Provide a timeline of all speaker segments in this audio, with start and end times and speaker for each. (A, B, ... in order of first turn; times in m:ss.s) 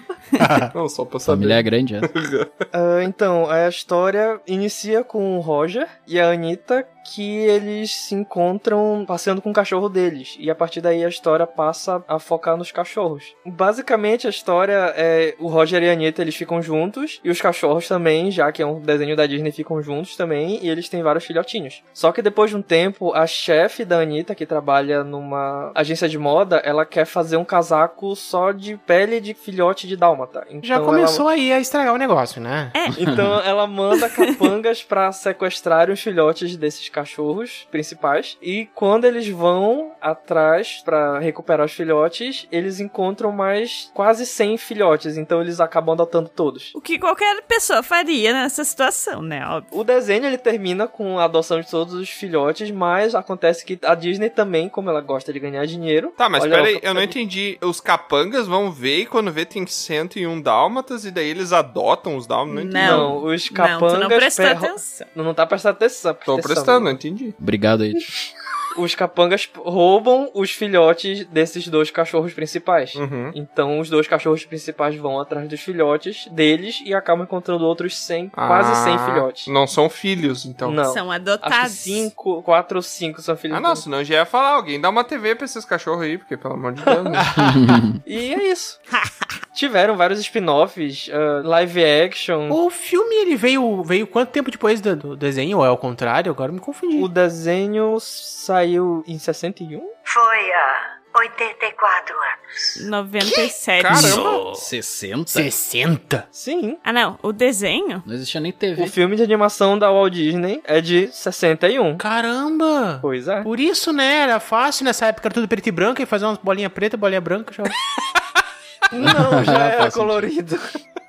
0:00.4-0:00.7 A
0:00.7-0:02.5 B
0:01.3-0:02.1 C
0:02.7-0:31.2 D
0:30.6-0:32.8 A
0:32.9-0:33.4 C
0:33.0-0:46.7 D
0:46.7-0:49.7 E
0:49.7-0:57.2 D
0:56.2-1:03.2 B
1:02.5-1:05.1 E
1:02.8-1:07.0 D
1:06.3-1:07.4 B
1:07.4-1:08.0 C
1:08.8-1:19.5 D
1:13.0-1:13.4 B
1:18.4-1:20.8 B
1:20.6-1:23.8 D
1:20.9-1:22.1 E
1:23.5-1:27.2 B
1:26.8-1:27.2 D
1:27.2-1:27.8 A
1:27.4-1:28.0 C
1:28.0-1:28.8 D
1:29.5-1:32.6 D
1:32.5-1:37.1 A
1:37.0-1:39.9 D
1:40.1-1:42.2 F
1:42.8-1:44.2 E
1:43.8-1:44.2 B
1:43.9-1:44.6 A
1:44.0-1:45.5 C
1:45.3-1:46.3 A
1:46.3-1:46.8 D
1:46.8-1:48.0 E
1:48.0-1:48.9 C
1:48.8-1:52.0 D
1:52.0-1:57.8 A
1:53.0-1:53.5 D
1:58.9-2:00.8 D
1:59.0-2:00.3 C